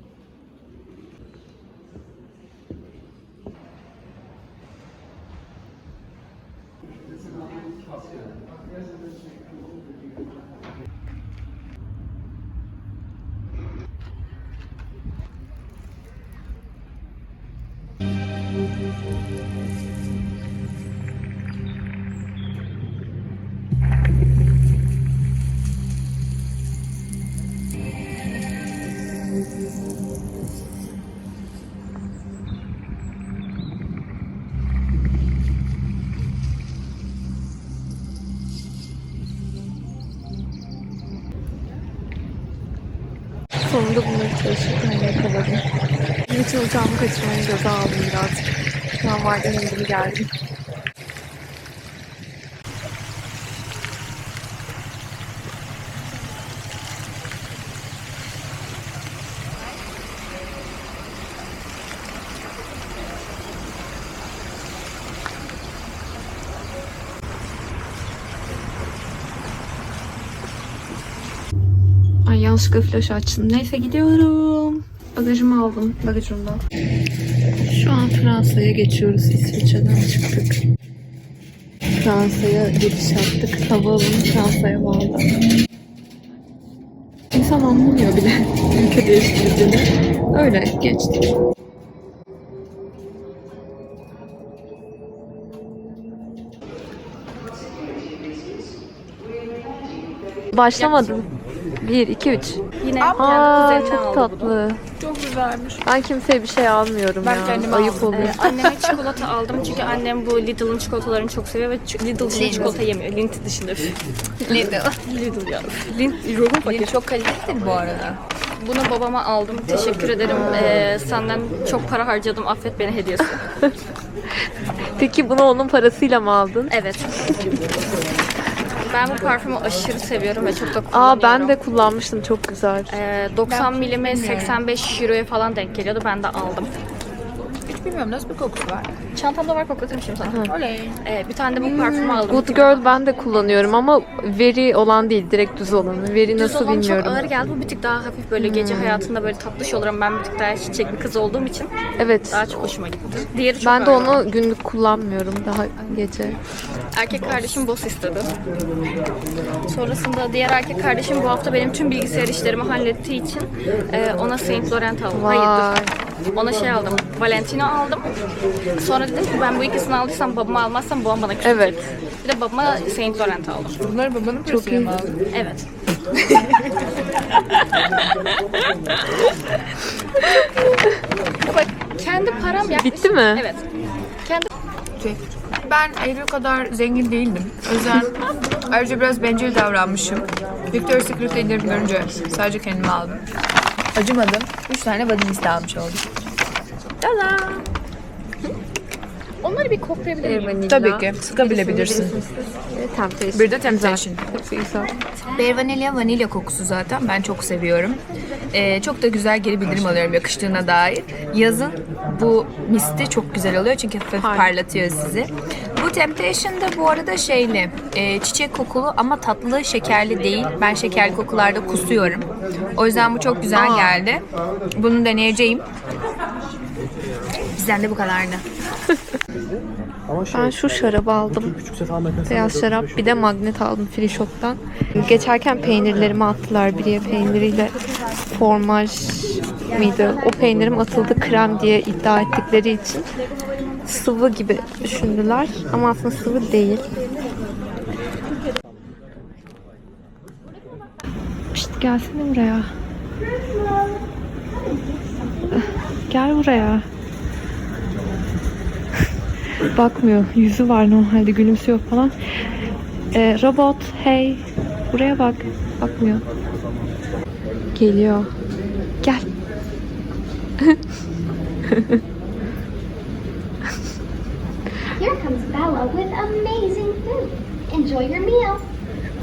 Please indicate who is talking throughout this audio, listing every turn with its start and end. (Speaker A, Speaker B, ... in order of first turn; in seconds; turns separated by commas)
Speaker A: 43.6-45.6, Speaker A: 46.2-48.5, Speaker A: 49.0-50.3, Speaker A: 72.2-76.6, Speaker A: 77.7-80.6, Speaker A: 82.0-85.3, Speaker A: 87.3-91.2, Speaker A: 100.5-104.8, Speaker B: 100.8-101.2, Speaker B: 102.8-104.6, Speaker C: 103.0-103.8, Speaker C: 105.0-105.8, Speaker A: 105.8-108.9, Speaker C: 107.2-108.5, Speaker B: 108.0-114.0, Speaker A: 112.3-112.8, Speaker C: 112.3-112.7, Speaker A: 114.5-114.8, Speaker B: 115.0-117.0, Speaker C: 116.6-118.2, Speaker B: 118.6-123.5, Speaker A: 125.0-126.7, Speaker B: 126.7-127.2, Speaker B: 128.8-131.6, Speaker A: 130.9-132.9, Speaker B: 132.9-136.7, Speaker C: 133.5-134.6, Speaker C: 137.6-139.0, Speaker B: 139.1-143.6, Speaker C: 140.4-141.0, Speaker A: 141.6-147.3, Speaker B: 146.3-151.7, Speaker A: 148.4-149.1, Speaker A: 152.0-152.7, Speaker B: 152.3-154.3, Speaker A: 153.6-156.4, Speaker B: 156.9-158.3, Speaker B: 159.7-165.8, Speaker A: 165.1-165.9, Speaker B: 166.3-168.1, Speaker B: 168.8-173.8, Speaker A: 171.4-171.8, Speaker C: 173.8-175.2, Speaker A: 174.4-175.0, Speaker B: 175.3-175.6, Speaker B: 181.5-183.6, Speaker A: 182.7-183.5, Speaker C: 185.0-188.2, Speaker C: 188.7-193.2, Speaker C: 193.9-196.0, Speaker B: 199.4-200.6, Speaker A: 200.2-204.9, Speaker C: 200.7-202.2, Speaker C: 203.3-204.2, Speaker C: 205.3-208.0, Speaker C: 208.5-225.7, Speaker A: 214.2-214.5, Speaker A: 223.5-224.0, Speaker C: 227.6-228.4, Speaker D: 229.3-233.1, Speaker A: 230.3-231.6, Speaker A: 232.2-243.1, Speaker A: 243.8-246.9, Speaker A: 251.5-252.7, Speaker A: 255.5-256.9, Speaker A: 259.7-262.1, Speaker A: 263.1-266.2, Speaker A: 267.7-268.3, Speaker A: 271.7-272.0, Speaker E: 274.9-278.7